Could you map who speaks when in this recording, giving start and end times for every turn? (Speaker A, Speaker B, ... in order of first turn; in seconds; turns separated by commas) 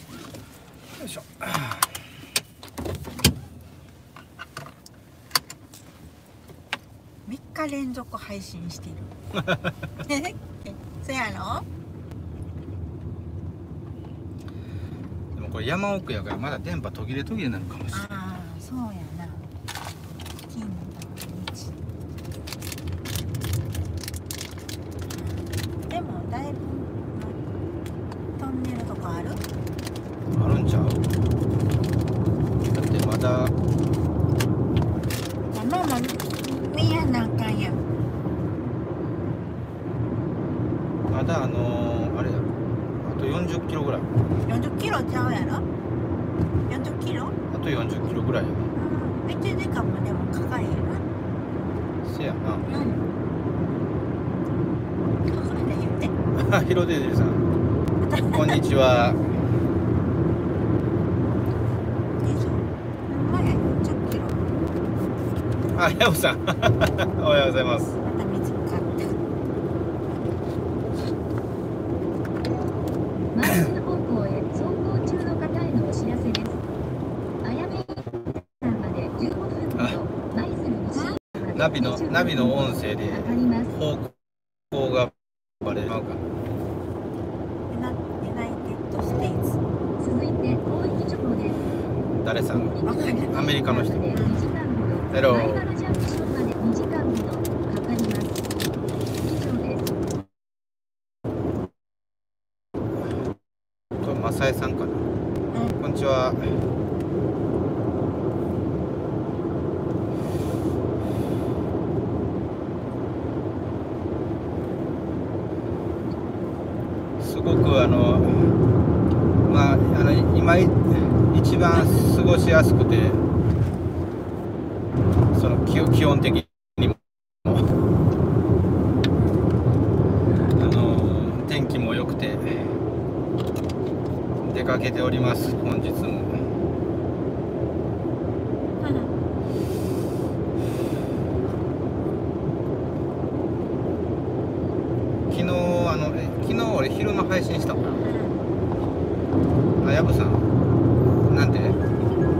Speaker A: 1.0-1.9, Speaker B: 7.2-9.1, Speaker A: 9.3-9.7, Speaker B: 10.1-11.7, Speaker A: 15.3-18.1, Speaker B: 17.9-19.5, Speaker B: 20.5-21.8, Speaker B: 25.9-27.4, Speaker B: 28.4-29.4, Speaker A: 30.3-31.0, Speaker A: 32.6-33.5, Speaker B: 35.5-37.8, Speaker A: 41.1-42.5, Speaker A: 43.0-44.1, Speaker B: 44.5-45.6, Speaker B: 46.7-47.4, Speaker A: 47.5-48.6, Speaker B: 48.7-51.1, Speaker A: 52.0-52.7, Speaker B: 52.7-53.0, Speaker B: 55.2-56.1, Speaker A: 56.3-57.4, Speaker B: 58.0-58.6, Speaker A: 58.3-59.2, Speaker B: 62.1-64.6, Speaker A: 65.7-67.9, Speaker B: 67.8-69.2, Speaker C: 73.3-76.6, Speaker C: 77.4-83.7, Speaker B: 80.9-81.2, Speaker A: 81.5-84.2, Speaker A: 84.7-86.2, Speaker B: 87.7-89.6, Speaker C: 90.0-91.6, Speaker A: 92.1-94.0, Speaker C: 92.5-98.4, Speaker B: 92.8-93.5, Speaker B: 94.1-94.4, Speaker A: 95.1-95.7, Speaker C: 99.2-99.9, Speaker A: 103.0-103.3, Speaker A: 104.0-105.0, Speaker B: 105.5-105.8, Speaker A: 105.8-106.5, Speaker A: 117.2-118.5, Speaker A: 119.5-123.2, Speaker A: 125.3-127.7, Speaker B: 129.2-129.4, Speaker A: 130.5-132.7, Speaker A: 134.4-136.4, Speaker B: 138.8-139.1, Speaker A: 145.3-147.8, Speaker B: 148.0-148.4, Speaker A: 149.8-150.5, Speaker A: 151.2-151.8